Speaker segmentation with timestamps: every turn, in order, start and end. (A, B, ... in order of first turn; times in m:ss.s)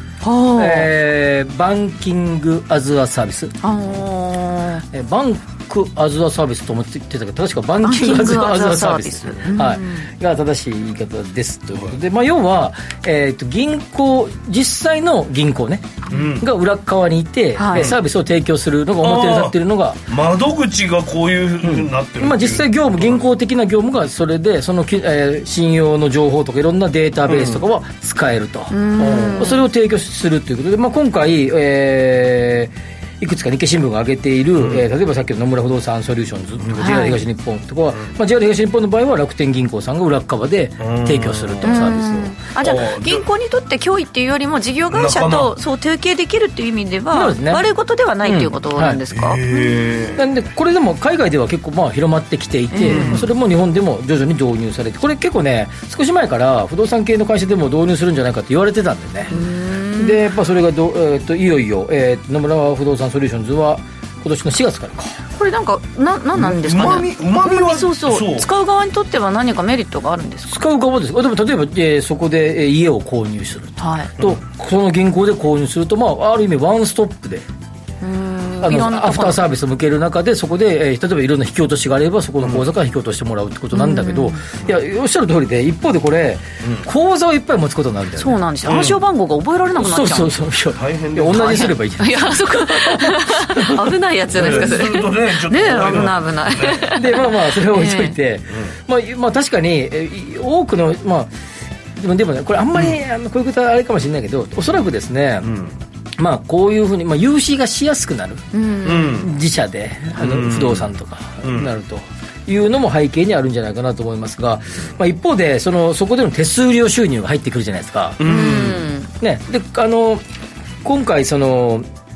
0:00.2-0:00.9 A
0:00.6-0:03.5 B
0:03.6-0:04.8 A
0:04.9-0:20.0 B
0:07.8-0:10.1 A
0:16.1-0:16.4 C
0:17.6-0:17.9 A
0:19.0-0:19.6 C
0:20.1-0:23.2 C
0:21.6-0:42.3 B
0:27.3-0:27.6 C
0:28.7-0:29.6 A
0:34.6-0:34.8 C
0:36.6-0:36.9 C
0:36.8-0:37.2 A
0:40.8-0:42.0 C
0:41.6-0:49.8 A
0:42.6-0:43.2 C
0:44.9-0:45.5 C
0:47.1-0:47.6 B
0:48.2-0:49.0 B
0:49.1-0:50.2 C
0:50.2-0:59.3 B
0:52.7-0:53.2 A
0:52.8-0:53.3 C
0:59.3-1:00.2 A
1:00.0-1:05.2 B
1:05.4-1:10.6 A
1:06.4-1:08.5 C
1:10.5-1:17.4 B
1:13.8-1:14.1 A
1:18.0-1:19.4 A
1:18.6-1:28.4 B
1:23.7-1:24.4 A
1:28.2-1:30.4 A
1:28.6-1:29.0 C
1:29.8-1:33.8 B
1:30.8-1:31.7 C
1:31.3-1:38.2 A
1:34.3-1:36.8 C
1:36.9-1:41.3 B
1:42.0-1:45.5 B
1:45.4-1:45.8 C
1:46.2-1:48.4 B
1:48.5-1:49.2 A
1:48.8-1:49.3 C
1:49.1-1:58.2 B
1:50.2-1:50.9 C
1:51.4-1:51.7 C
1:58.2-1:58.9 C
1:58.2-1:59.1 A
1:59.2-2:00.2 B
2:00.8-2:01.9 B